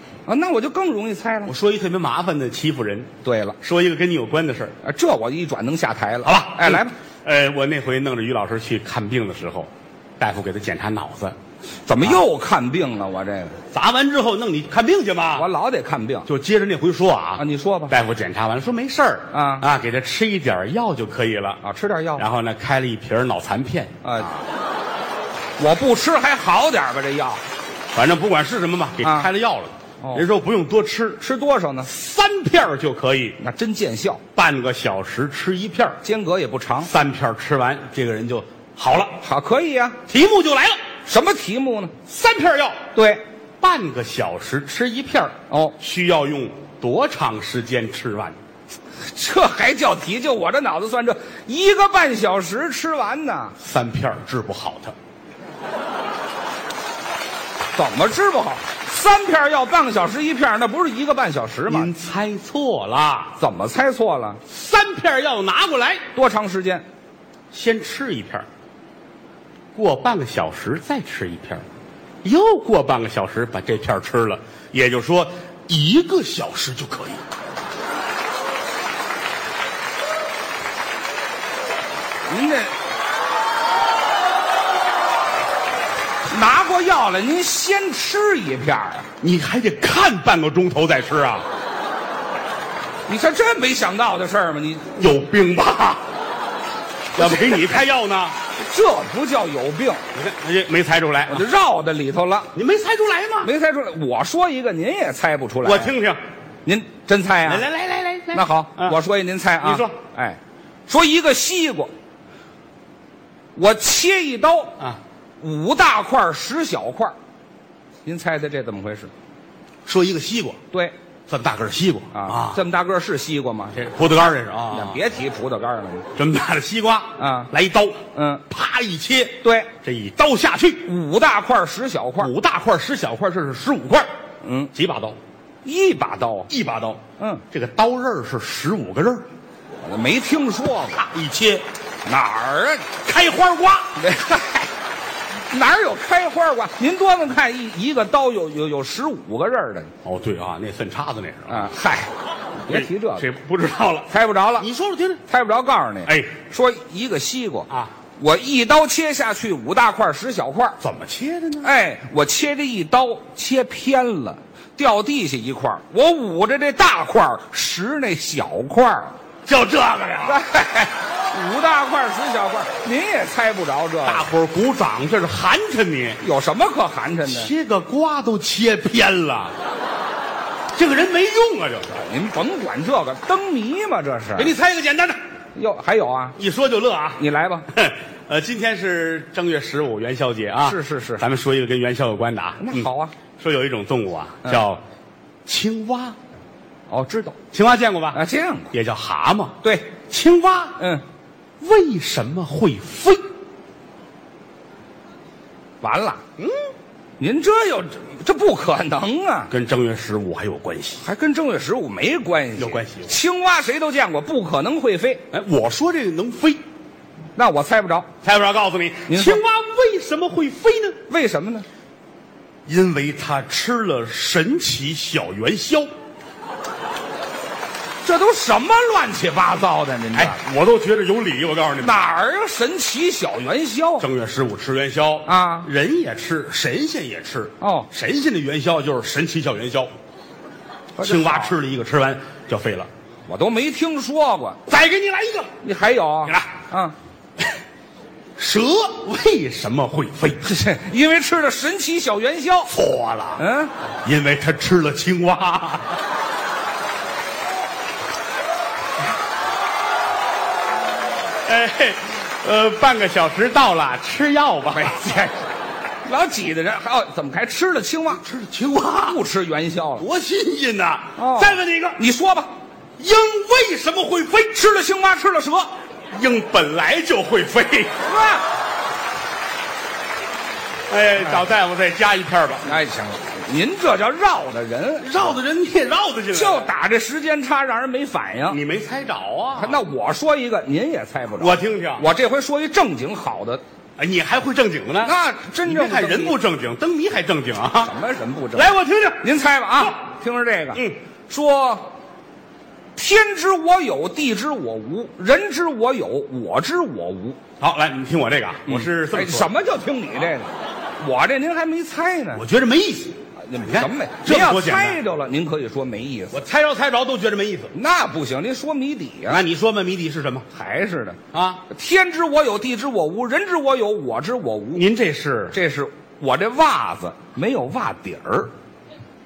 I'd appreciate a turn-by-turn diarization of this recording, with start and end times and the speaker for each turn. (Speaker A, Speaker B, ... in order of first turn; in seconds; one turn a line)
Speaker A: 0.3-1.5
Speaker B: 1.4-3.1
Speaker A: 3.2-3.6
Speaker B: 3.6-4.7
Speaker A: 4.8-6.9
Speaker B: 6.2-9.7
Speaker B: 10.2-11.3
Speaker A: 11.8-13.6
Speaker B: 13.7-15.5
Speaker A: 15.3-16.3
Speaker B: 16.2-21.6
Speaker A: 17.4-17.9
Speaker A: 19.3-19.6
Speaker A: 21.6-22.2
Speaker B: 22.1-23.9
Speaker A: 24.0-24.4
Speaker A: 25.6-27.4
Speaker B: 27.9-31.2
Speaker A: 29.0-29.3
Speaker A: 30.0-30.3
Speaker A: 31.2-31.9
Speaker B: 31.8-33.4
Speaker A: 33.4-34.2
Speaker B: 34.3-36.0
Speaker A: 36.0-36.9
Speaker B: 36.8-39.2
Speaker A: 39.2-40.0
Speaker B: 40.1-40.8
Speaker A: 41.0-41.9
Speaker B: 42.0-42.8
Speaker A: 42.9-43.2
Speaker B: 43.6-48.4
Speaker A: 45.5-45.8
Speaker A: 49.0-53.5
Speaker B: 53.6-54.9
Speaker A: 57.7-61.9
Speaker B: 61.7-63.4
Speaker A: 63.4-64.4
Speaker B: 64.4-66.0
Speaker A: 66.1-66.8
Speaker B: 67.5-68.5
Speaker B: 69.7-71.6
Speaker B: 72.2-77.2
Speaker A: 82.3-82.7
Speaker A: 86.2-89.1
Speaker B: 89.2-91.5
Speaker A: 93.1-94.9
Speaker B: 95.0-96.0
Speaker A: 97.2-97.8
Speaker B: 97.2-98.3
Speaker A: 98.5-100.0
Speaker B: 100.1-101.5
Speaker A: 101.3-102.5
Speaker B: 102.5-103.5
Speaker A: 103.4-105.9
Speaker B: 105.6-106.2
Speaker A: 106.6-107.7
Speaker B: 107.4-109.0
Speaker A: 108.3-111.9
Speaker B: 109.6-109.9
Speaker A: 113.5-114.7
Speaker A: 115.4-117.2
Speaker A: 118.0-119.1
Speaker B: 119.8-120.6
Speaker B: 121.3-122.6
Speaker A: 122.1-123.9
Speaker B: 123.8-125.0
Speaker A: 124.7-126.1
Speaker B: 126.1-130.9
Speaker A: 127.2-127.5
Speaker A: 128.1-128.4
Speaker A: 129.4-129.7
Speaker A: 130.8-132.3
Speaker B: 132.2-134.1
Speaker A: 134.4-134.7
Speaker B: 134.7-135.2
Speaker A: 135.6-136.5
Speaker B: 136.5-139.2
Speaker A: 137.2-137.4
Speaker A: 139.8-141.0
Speaker B: 141.0-141.6
Speaker A: 142.0-142.8
Speaker B: 143.0-144.0
Speaker A: 143.9-144.7
Speaker A: 145.5-149.9
Speaker B: 150.0-151.7
Speaker A: 151.5-153.2
Speaker B: 152.7-155.2
Speaker A: 154.1-154.7
Speaker A: 155.3-160.8
Speaker B: 156.1-156.3
Speaker B: 160.8-161.7
Speaker A: 161.6-169.1
Speaker B: 169.5-170.4
Speaker A: 170.2-174.3
Speaker B: 174.0-176.2
Speaker A: 176.2-177.5
Speaker B: 177.3-179.5
Speaker B: 180.7-181.9
Speaker A: 181.9-184.5
Speaker B: 184.3-185.2
Speaker A: 185.5-186.4
Speaker B: 186.3-192.9
Speaker A: 187.2-187.7
Speaker A: 190.6-191.2
Speaker A: 192.6-193.1
Speaker B: 193.4-194.8
Speaker B: 195.4-196.2
Speaker A: 196.9-197.4
Speaker B: 197.5-198.2
Speaker A: 198.1-198.7
Speaker B: 198.7-199.6
Speaker A: 199.6-199.9
Speaker B: 200.1-200.8
Speaker A: 200.8-201.0
Speaker B: 201.6-203.2
Speaker A: 205.8-206.2
Speaker A: 207.2-209.5
Speaker B: 209.5-211.0
Speaker A: 211.0-215.2
Speaker B: 212.6-213.1
Speaker B: 215.3-216.6
Speaker A: 217.3-218.1
Speaker B: 218.2-221.0
Speaker A: 219.1-219.4
Speaker A: 221.1-221.7
Speaker B: 222.7-225.9
Speaker A: 228.0-230.4
Speaker B: 230.1-232.0
Speaker A: 231.8-234.1
Speaker B: 234.0-239.9
Speaker A: 235.2-235.7
Speaker A: 237.6-237.9
Speaker A: 241.0-241.5
Speaker B: 241.0-242.9
Speaker A: 243.3-244.6
Speaker B: 244.7-245.5
Speaker A: 245.6-246.9
Speaker B: 246.2-246.6
Speaker B: 248.4-250.5
Speaker A: 250.4-252.7
Speaker B: 252.7-253.4
Speaker A: 253.4-253.7
Speaker B: 254.0-256.0
Speaker B: 261.4-265.1
Speaker A: 264.7-265.5
Speaker A: 266.0-268.2
Speaker B: 268.1-269.2
Speaker A: 269.0-270.1
Speaker B: 270.0-272.0
Speaker A: 271.2-272.5
Speaker B: 273.0-274.6
Speaker A: 274.6-275.7
Speaker B: 276.1-277.9
Speaker A: 278.1-278.5
Speaker B: 280.9-282.7
Speaker A: 282.6-285.4
Speaker B: 285.0-286.7
Speaker A: 286.3-288.6
Speaker B: 288.5-289.8
Speaker A: 289.6-293.6
Speaker B: 291.4-292.0
Speaker B: 294.0-297.9
Speaker A: 295.0-296.4
Speaker A: 297.8-301.9
Speaker B: 298.5-299.2
Speaker B: 300.7-301.0
Speaker A: 302.9-307.4
Speaker B: 307.6-309.5
Speaker A: 308.6-312.4
Speaker B: 312.3-315.0
Speaker A: 313.4-316.4
Speaker B: 316.3-317.7
Speaker A: 317.7-319.4
Speaker B: 319.3-320.5
Speaker A: 320.5-321.2
Speaker B: 321.3-321.6
Speaker A: 321.7-324.8
Speaker B: 324.7-325.6
Speaker A: 325.5-328.5